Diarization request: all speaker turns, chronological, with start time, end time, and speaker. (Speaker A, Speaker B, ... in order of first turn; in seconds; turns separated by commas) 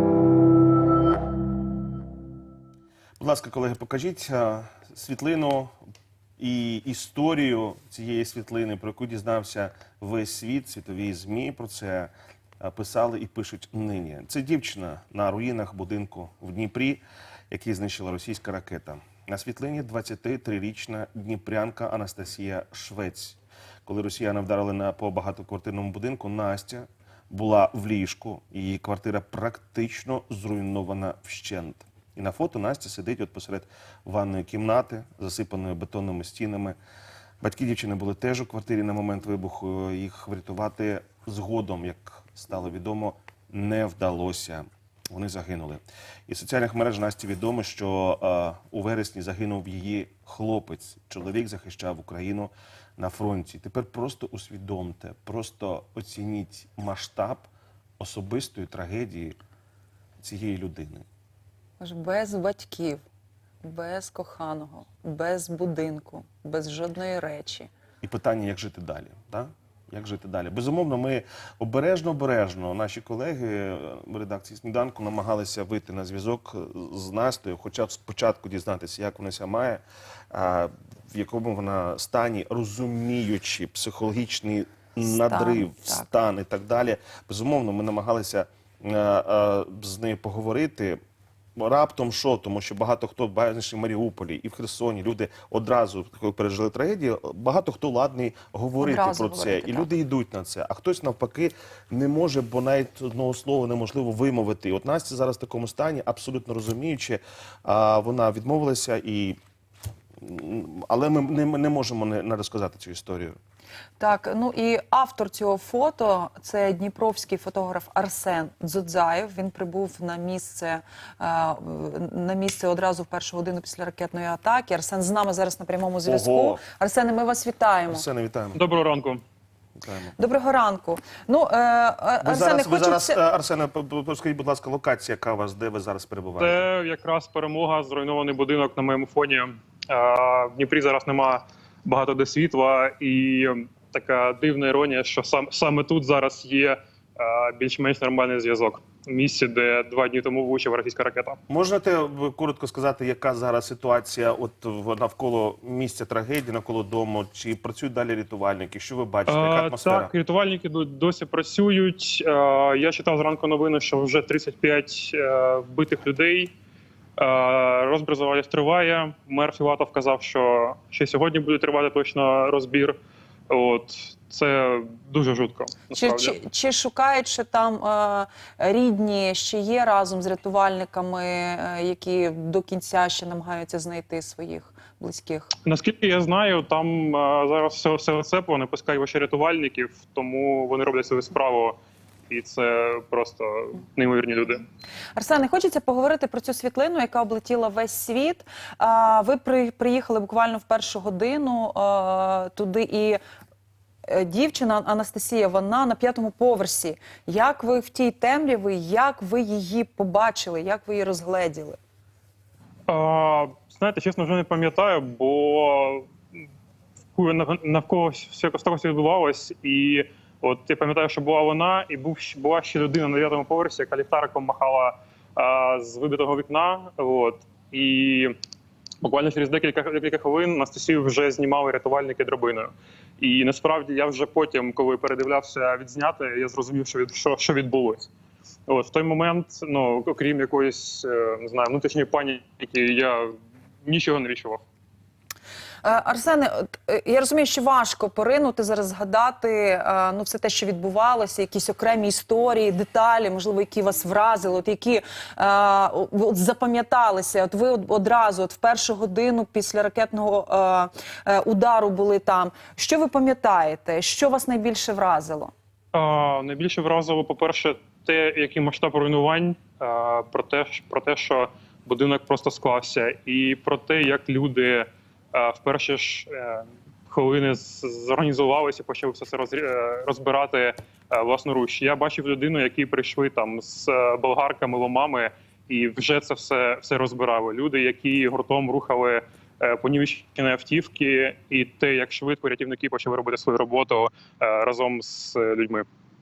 Speaker A: 3.2-5.8, Speaker A: 6.4-36.8, Speaker A: 37.4-57.5, Speaker A: 58.0-59.4, Speaker A: 60.2-61.0, Speaker B: 61.8-63.0, Speaker B: 63.6-67.7, Speaker A: 68.0-91.0, Speaker B: 85.0-86.0, Speaker A: 91.6-109.4, Speaker B: 98.8-99.9, Speaker A: 110.2-113.4, Speaker B: 114.0-128.0, Speaker A: 126.0-126.6, Speaker A: 127.9-128.6, Speaker C: 128.5-129.2, Speaker A: 129.8-130.2, Speaker B: 130.2-133.2, Speaker A: 132.2-136.6, Speaker C: 136.4-151.4, Speaker A: 151.5-160.1, Speaker C: 159.3-166.5, Speaker C: 167.2-172.9, Speaker C: 173.5-176.3, Speaker B: 175.9-185.5, Speaker C: 185.6-191.8, Speaker C: 192.3-194.6, Speaker B: 195.1-203.2, Speaker B: 204.1-211.8, Speaker C: 212.9-216.1, Speaker C: 217.1-228.3, Speaker C: 229.0-238.1, Speaker C: 238.7-244.6, Speaker B: 245.8-265.5, Speaker C: 265.9-295.9